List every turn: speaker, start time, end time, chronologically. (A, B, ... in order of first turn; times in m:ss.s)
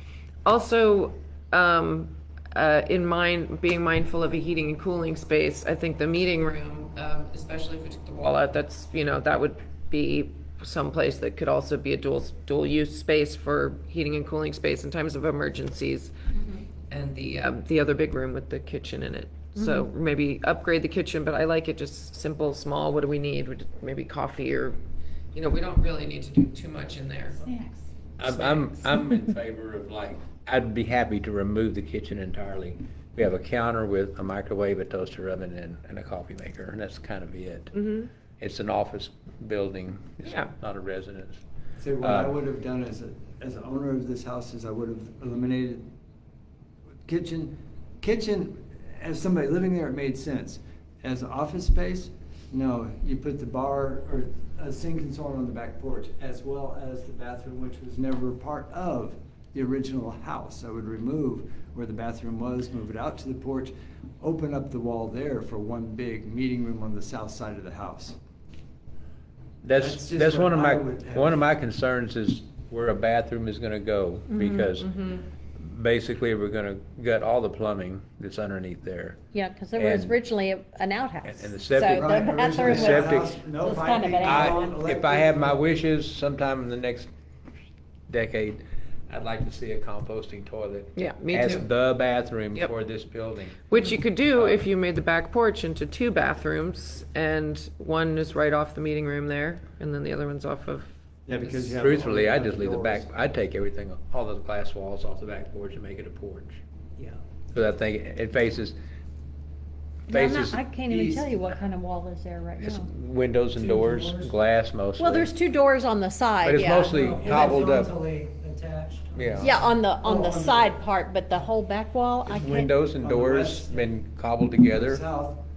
0:00.4-0:16.1 A
0:16.3-0:16.6 B
0:16.9-0:24.8 A
0:19.6-0:19.9 B
0:25.3-0:27.4 A
0:28.2-0:37.7 C
0:28.2-0:28.9 A
0:37.7-0:38.1 A
0:38.4-0:41.4 C
0:40.2-0:40.5 A
0:41.8-0:45.9 D
0:42.0-0:42.4 C
0:47.0-1:08.2 D
1:09.6-1:19.2 C
1:09.8-1:11.4 D
1:14.3-1:14.7 B
1:19.3-1:24.7 B
1:19.7-1:20.2 C
1:21.2-1:23.3 C
1:21.9-1:25.7 D
1:24.2-1:27.1 C
1:28.1-1:33.6 C
1:31.0-1:31.6 A
1:33.7-1:40.9 A
1:34.3-1:34.6 C
1:41.2-1:43.2 D
1:41.6-1:46.6 C
1:47.5-1:48.8 C
1:50.1-1:50.6 C
1:50.1-1:52.9 B
1:50.8-1:51.3 D
1:52.6-1:55.3 C
1:53.6-1:54.3 E
1:55.0-1:57.6 B
1:56.4-1:57.9 C
1:56.8-2:00.8 E
1:59.1-1:59.6 C
1:59.4-2:02.7 B
2:02.3-2:05.0 C
2:03.0-2:03.9 D
2:04.7-2:05.4 D